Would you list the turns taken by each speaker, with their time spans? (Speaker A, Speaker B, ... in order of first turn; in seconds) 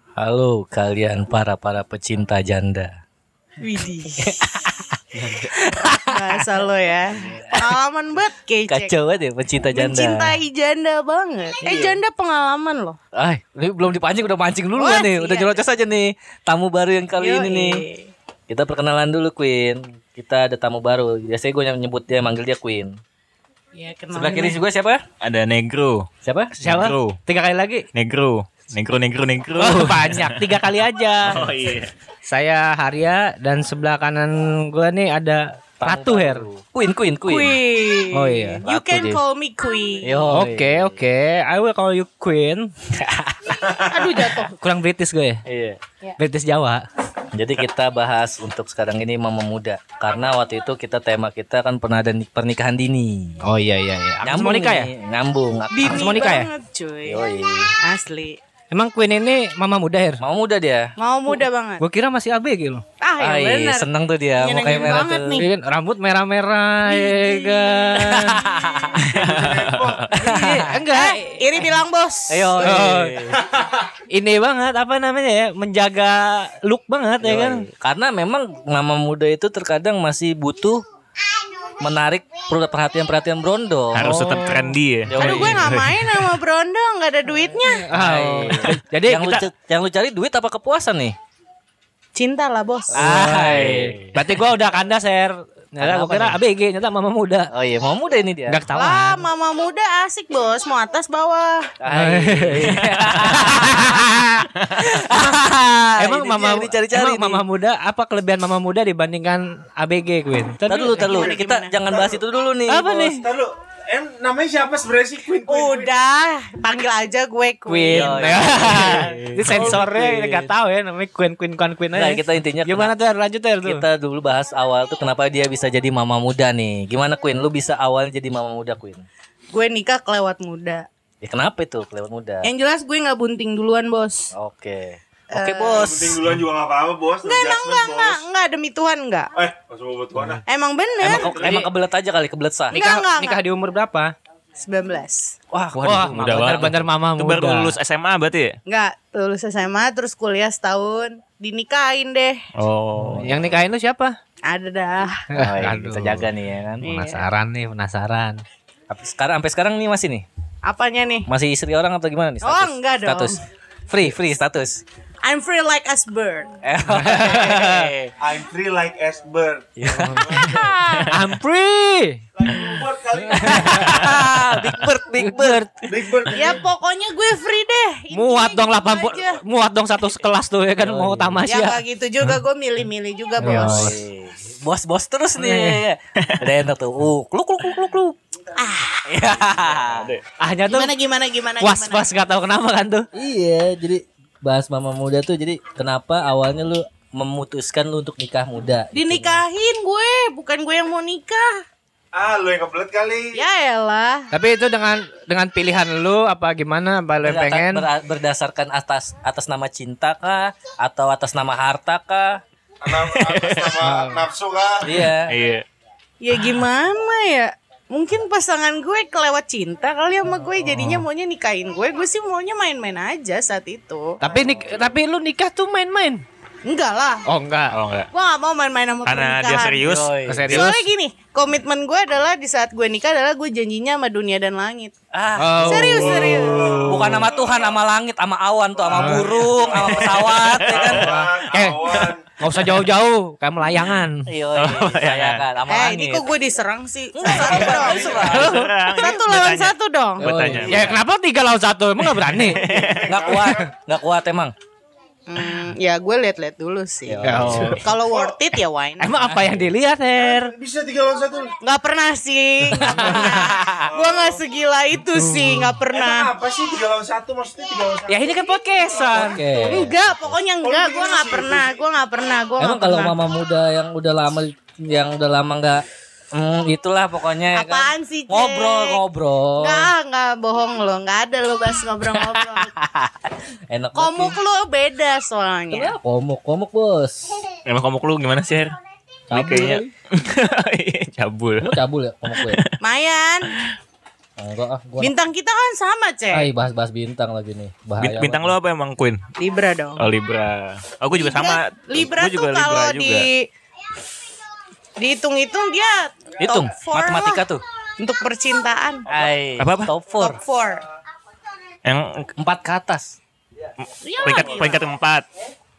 Speaker A: 0.1-2.9, 4.2-6.0, 7.1-7.8, 8.7-10.4, 11.6-12.0, 13.1-17.8, 18.5-23.0, 24.1-25.0, 26.2-26.6, 35.8-37.6, 38.6-39.2, 40.0-41.0, 45.5-45.8, 47.3-53.4, 54.2-56.4, 57.0-57.7, 60.2-60.9, 63.2-65.4, 68.5-69.0, 70.1-70.8, 72.3-73.4, 77.2-80.8, 81.8-84.2, 85.1-85.8, 87.9-91.2, 92.9-94.1, 95.8-96.4, 97.5-98.6, 101.8-104.0, 104.8-107.4, 110.7-113.2, 117.9-120.5, 121.9-122.9, 123.6-129.1, 131.2-132.5, 134.3-136.2, 141.0-142.8, 145.5-146.5, 153.1-153.6, 155.4-156.8, 158.9-160.2, 161.2-164.8, 166.6-168.1, 169.8-170.7, 173.4-175.6, 180.8-181.4, 183.4-188.2, 189.1-190.1, 193.1-199.4, 207.2-212.4, 214.8-215.3, 229.8-230.6, 235.1-241.2, 244.2-246.3, 247.1-248.6, 250.4-251.0, 253.1-254.5, 257.1-257.8, 259.2-259.7, 269.1-270.4, 272.6-279.9, 282.6-284.4, 285.7-287.3, 289.3-289.9, 291.6-292.6, 294.4-295.1, 296.3-298.5, 306.4-307.6, 309.1-310.4, 312.4-313.1
Speaker B: 3.6-4.6, 5.9-8.9, 9.7-13.0, 14.8-15.6, 17.2-18.1, 23.7-24.6, 37.3-40.3, 43.9-44.5, 55.7-57.2, 57.8-58.4, 61.0-61.8, 63.0-65.4, 66.8-69.0, 70.6-72.7, 85.2-87.9, 92.1-93.0, 98.7-101.7, 111.0-112.0, 115.5-118.4, 129.5-130.8, 132.4-134.3, 135.3-136.1, 137.2-139.3, 140.4-141.3, 142.7-143.4, 144.6-145.3, 148.7-152.4, 154.4-155.2, 156.8-157.2, 160.6-161.3, 162.4-163.4, 165.2-166.5, 170.5-171.1, 176.3-179.4, 181.4-183.9, 188.5-189.1, 190.7-192.1, 198.9-201.6, 203.3-204.3, 216.2-224.2, 226.6-227.2, 228.1-229.8, 230.5-234.9, 235.6-236.9, 245.7-250.3, 255.3-259.1, 261.6-266.3, 269.6-273.1, 277.5-279.0, 279.6-282.7, 283.9-285.9, 292.8-293.5, 295.0-296.5, 299.4-300.1, 301.1-303.5, 305.0-307.4, 308.0-309.1, 310.1-310.8, 314.0-314.8
Speaker C: 25.2-26.1, 26.6-27.2, 27.9-30.5, 31.2-31.9, 69.1-70.0, 83.9-86.2, 93.4-94.1, 104.6-104.8, 118.6-119.8, 145.8-148.6, 152.6-153.3, 189.9-190.2, 212.9-213.8, 215.2-215.6, 227.7-228.1, 229.0-230.1, 240.1-241.1, 244.5-245.4, 248.0-250.9, 252.2-253.3, 287.6-288.8, 289.3-291.8, 292.3-292.7, 298.0-299.2, 300.0-303.3, 309.6-309.9, 311.8-312.3, 314.2-315.2
Speaker D: 26.6-27.9, 29.6-31.4, 32.3-36.4, 38.1-38.6, 40.3-43.7, 44.5-45.4, 46.2-46.8, 53.4-54.9, 55.9-56.5, 58.7-60.2, 61.8-62.8, 65.3-68.5, 70.2-71.4, 72.6-73.3, 74.1-77.7, 84.0-84.8, 87.7-89.5, 92.9-97.5, 98.5-99.2, 101.9-104.5, 105.1-105.4, 106.0-111.0, 112.7-113.2, 117.7-123.8, 142.7-144.1, 145.8-147.7, 153.1-154.1, 155.3-156.3, 156.8-158.4, 166.9-167.9, 169.9-170.5, 171.0-172.8, 173.3-175.9, 178.1-181.8, 183.4-184.0, 185.4-185.8, 190.4-190.9, 191.6-193.1, 204.3-207.9, 213.8-214.2, 224.2-226.2, 227.2-227.7, 230.3-230.7, 235.4-236.2, 238.9-239.3, 241.1-244.3, 250.2-252.6, 257.2-257.8, 259.0-260.5, 262.8-263.6, 265.2-265.7, 268.1-269.5
Speaker E: 43.6-43.9, 69.0-70.2, 73.4-73.8, 111.0-111.3, 111.9-112.2, 113.1-115.9, 135.7-138.2, 139.3-140.4, 141.1-141.6, 168.2-170.7, 172.4-174.0, 175.9-176.6, 202.1-203.4, 212.8-214.9, 236.0-237.8, 238.8-242.2, 247.4-248.5, 252.5-253.6, 258.1-258.4, 260.2-261.5, 263.8-264.4, 265.9-269.1, 270.6-271.8